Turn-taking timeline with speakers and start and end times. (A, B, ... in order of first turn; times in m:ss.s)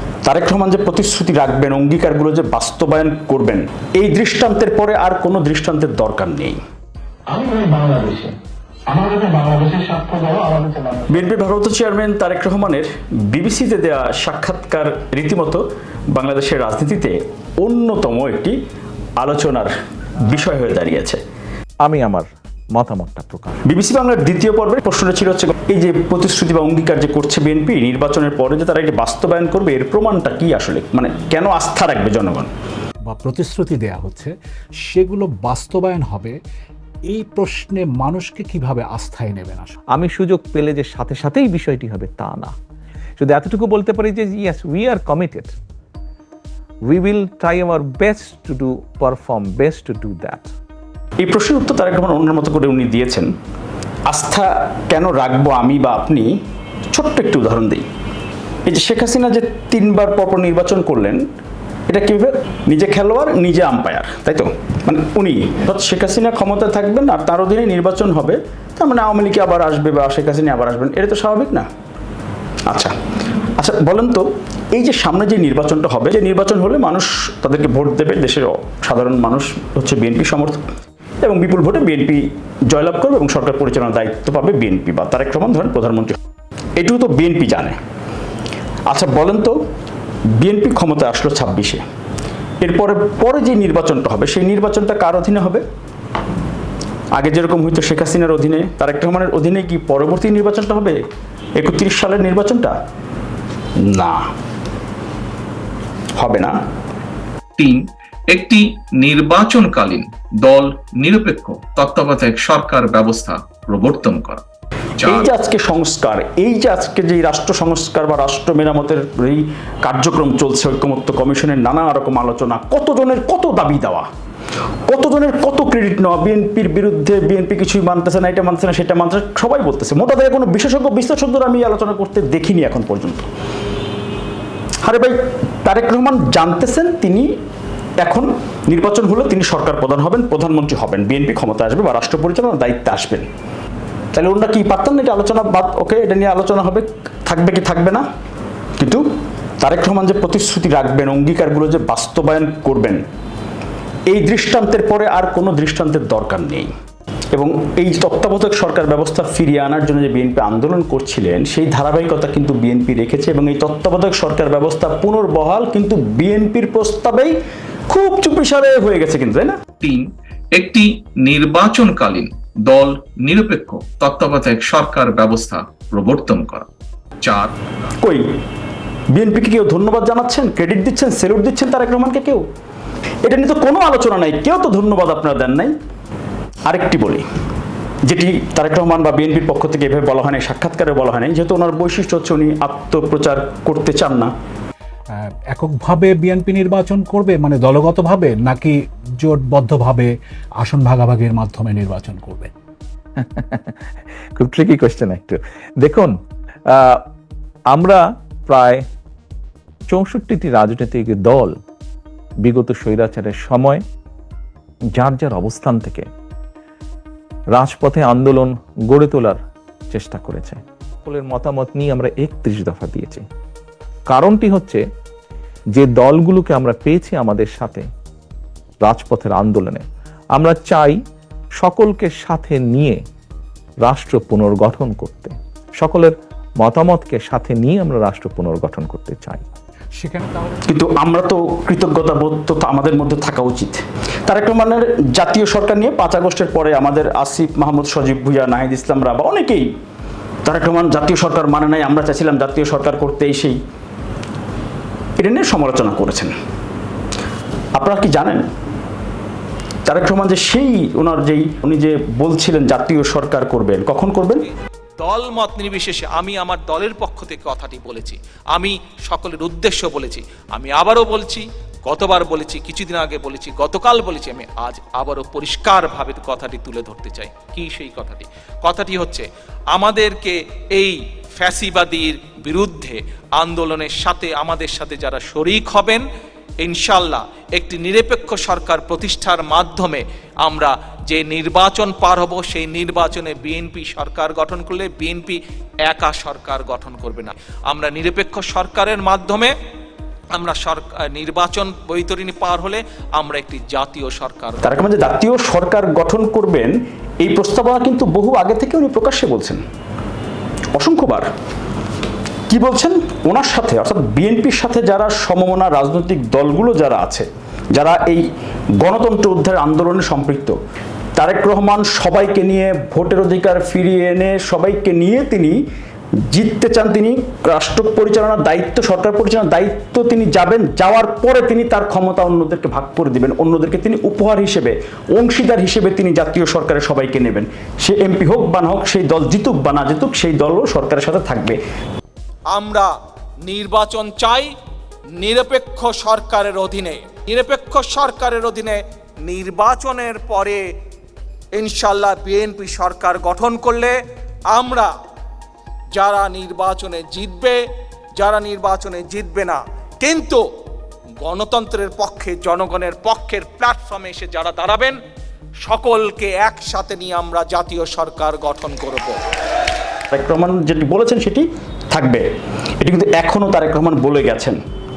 0:00.2-0:06.6 A
0:07.3-0:08.3 B
0:08.9-0:11.0 B
0:11.1-0:18.6 A
0:19.2-0:19.7 A
0:20.2-0:21.2 A
0:21.8-0:23.6 C
0:23.6-0:32.5 A
0:33.1-0:34.3 D
0:34.9-0:36.3 D
0:37.1-0:39.8 D
0:39.9-0:42.5 C
0:43.2-0:45.5 C
0:46.9-0:50.5 C
0:51.2-0:53.3 A
0:54.1-0:56.3 A
0:56.9-0:57.8 A
0:58.7-1:01.2 A
1:01.9-1:11.6 A
1:12.7-1:12.9 A
1:13.6-1:20.6 A
1:21.2-1:26.2 A
1:26.8-1:27.8 A
1:28.9-1:29.5 A
1:30.4-1:31.8 A
1:32.6-1:35.6 A
1:37.1-1:41.0 A
1:41.6-1:42.7 A
1:43.8-1:44.2 A
1:46.2-1:46.5 A
1:47.6-1:54.4 E
1:55.0-1:55.3 E
1:55.0-2:04.0 A
2:04.9-2:13.3 A
2:14.8-2:17.2 A
2:18.0-2:23.2 A
2:24.1-2:28.0 A
2:28.8-2:29.0 A
2:29.6-2:33.0 A
2:34.1-2:36.7 A
2:37.3-2:47.3 A
2:47.9-2:49.6 A
2:49.8-2:56.7 E
2:57.2-2:57.5 E
2:59.1-3:02.4 A
3:03.2-3:05.7 A
3:06.7-3:07.2 A
3:08.0-3:14.3 A
3:15.1-3:20.1 D
3:20.6-3:22.5 D
3:23.2-3:26.1 C
3:26.7-3:27.0 C
3:27.7-3:28.8 C
3:29.9-3:31.5 C
3:32.4-3:33.8 C
3:35.0-3:36.0 C
3:37.5-3:39.4 C
3:39.9-3:43.2 C
3:44.1-3:44.8 C
3:45.7-3:47.8 C
3:48.8-3:49.8 C
3:50.4-3:51.0 C
3:51.6-3:53.0 C
3:53.8-3:59.4 C
4:00.0-4:00.6 D
4:00.7-4:09.7 A
4:10.4-4:13.6 A
4:15.2-4:16.3 A
4:17.7-4:18.4 A
4:19.9-4:24.4 A
4:25.0-4:46.0 F
4:46.6-4:59.5 F
5:00.3-5:04.6 F
5:04.6-5:09.6 A
5:10.8-5:11.2 A
5:12.5-5:18.2 A
5:18.8-5:20.6 A
5:21.2-5:25.6 A
5:26.3-5:41.6 A
5:42.5-5:42.9 F
5:43.4-5:44.5 F
5:45.2-5:50.6 F
5:51.5-5:54.0 F
5:54.5-5:54.9 F
5:55.9-5:57.6 F
5:58.2-6:00.4 F
6:01.2-6:05.0 F
6:05.6-6:09.2 F
6:10.1-6:12.2 A
6:12.8-6:14.6 A